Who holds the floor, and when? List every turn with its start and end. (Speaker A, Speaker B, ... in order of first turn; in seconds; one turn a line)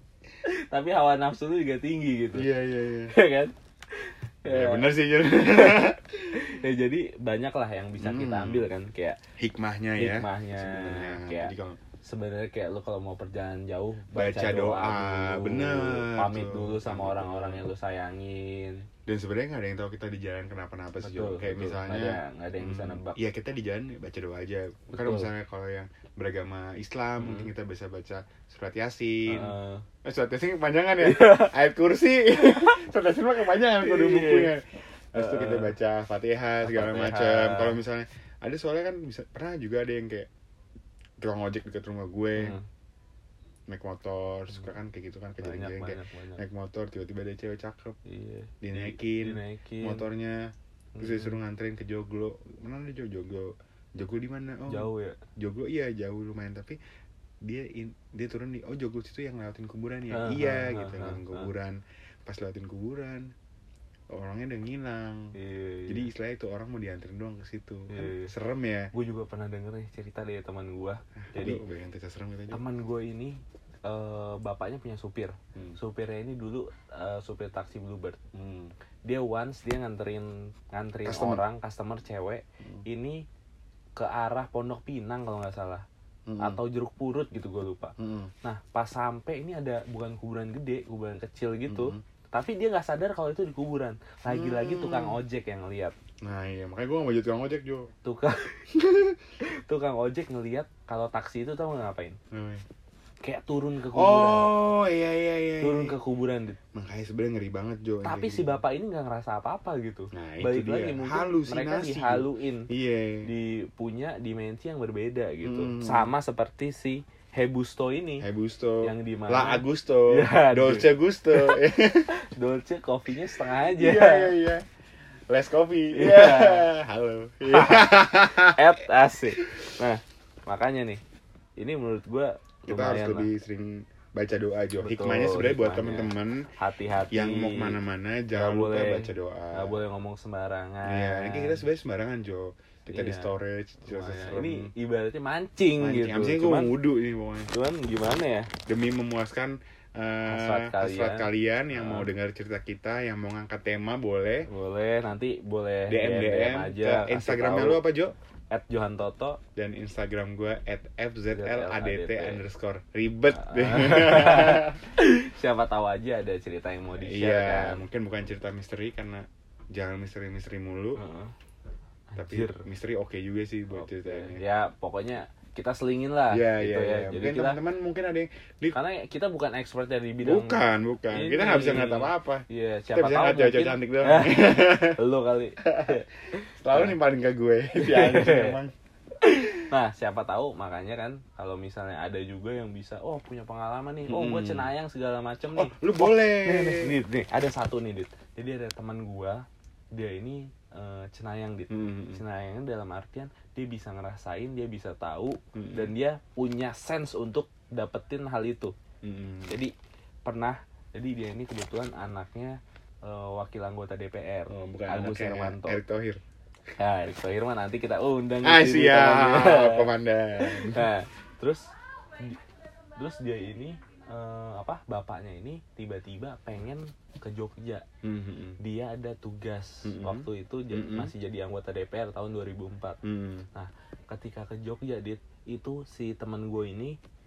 Speaker A: 0.5-2.5
Speaker B: 2.3-3.1
Speaker A: 3.1-9.2
Speaker B: 4.5-6.4
Speaker B: 8.0-8.7
Speaker B: 9.4-11.8
Speaker A: 10.0-11.5
Speaker A: 12.0-18.9
Speaker B: 14.1-17.7
Speaker B: 19.1-40.3
Speaker A: 21.0-23.2
Speaker A: 24.9-25.3
Speaker A: 27.2-27.5
Speaker A: 29.3-29.9
Speaker A: 31.0-31.5
Speaker A: 32.4-32.8
Speaker A: 33.8-34.5
Speaker A: 35.1-35.7
Speaker A: 36.6-37.8
Speaker B: 41.2-42.6
Speaker A: 42.4-42.6
Speaker B: 43.7-48.0
Speaker A: 45.4-46.4
Speaker A: 48.1-50.1
Speaker B: 48.6-56.8
Speaker A: 51.0-51.4
Speaker A: 54.7-55.2
Speaker B: 57.4-63.3
Speaker A: 60.1-61.5
Speaker B: 64.1-65.3
Speaker A: 65.3-66.1
Speaker B: 65.9-68.9
Speaker A: 67.9-68.3
Speaker A: 68.9-71.6
Speaker B: 71.3-72.6
Speaker A: 72.5-78.2
Speaker B: 78.3-78.7
Speaker A: 79.0-83.3
Speaker B: 81.0-81.4
Speaker A: 84.0-85.9
Speaker B: 86.3-86.6
Speaker A: 86.4-96.0
Speaker B: 88.0-88.3
Speaker B: 91.7-92.0
Speaker B: 94.3-95.2
Speaker B: 96.2-97.9
Speaker A: 98.0-98.7
Speaker B: 98.7-99.2
Speaker A: 99.4-102.2
Speaker B: 102.3-102.6
Speaker A: 103.2-104.5
Speaker B: 103.9-106.0
Speaker A: 105.6-106.6
Speaker B: 106.7-108.6
Speaker A: 108.0-112.7
Speaker B: 110.1-113.3
Speaker A: 113.2-118.3
Speaker B: 115.4-116.1
Speaker B: 118.2-122.1
Speaker A: 118.8-124.3
Speaker B: 123.5-124.6
Speaker B: 125.3-128.7
Speaker A: 125.9-126.7
Speaker A: 127.5-131.0
Speaker B: 129.4-129.7
Speaker A: 131.6-133.3
Speaker B: 132.7-136.5
Speaker A: 134.8-137.8
Speaker B: 137.1-139.8
Speaker A: 138.3-141.6
Speaker B: 140.9-144.7
Speaker A: 142.9-143.3
Speaker A: 143.8-146.7
Speaker B: 145.8-147.5
Speaker A: 147.5-148.5
Speaker B: 148.7-154.5
Speaker A: 150.3-152.1
Speaker A: 154.5-157.8
Speaker B: 155.9-158.1
Speaker A: 158.5-159.4
Speaker B: 159.6-164.9
Speaker A: 161.3-162.4
Speaker A: 163.3-167.8
Speaker B: 166.9-171.0
Speaker A: 171.0-171.3
Speaker A: 172.1-172.6
Speaker B: 172.2-174.4
Speaker A: 173.8-177.6
Speaker B: 176.3-178.8
Speaker A: 178.7-187.0
Speaker B: 180.2-185.0
Speaker B: 185.6-186.0
Speaker B: 186.6-188.7
Speaker A: 187.7-188.6
Speaker A: 189.2-208.8
Speaker B: 194.1-194.7
Speaker B: 195.6-197.0
Speaker B: 201.7-202.2
Speaker B: 205.6-205.9
Speaker B: 209.0-209.6
Speaker A: 209.5-209.7
Speaker A: 210.2-215.8
Speaker B: 214.5-216.2
Speaker A: 216.8-222.4
Speaker B: 218.4-220.9
Speaker A: 223.0-227.9
Speaker B: 228.0-228.6
Speaker A: 228.6-233.0
Speaker B: 229.8-231.1
Speaker B: 233.0-233.5
Speaker A: 233.5-237.0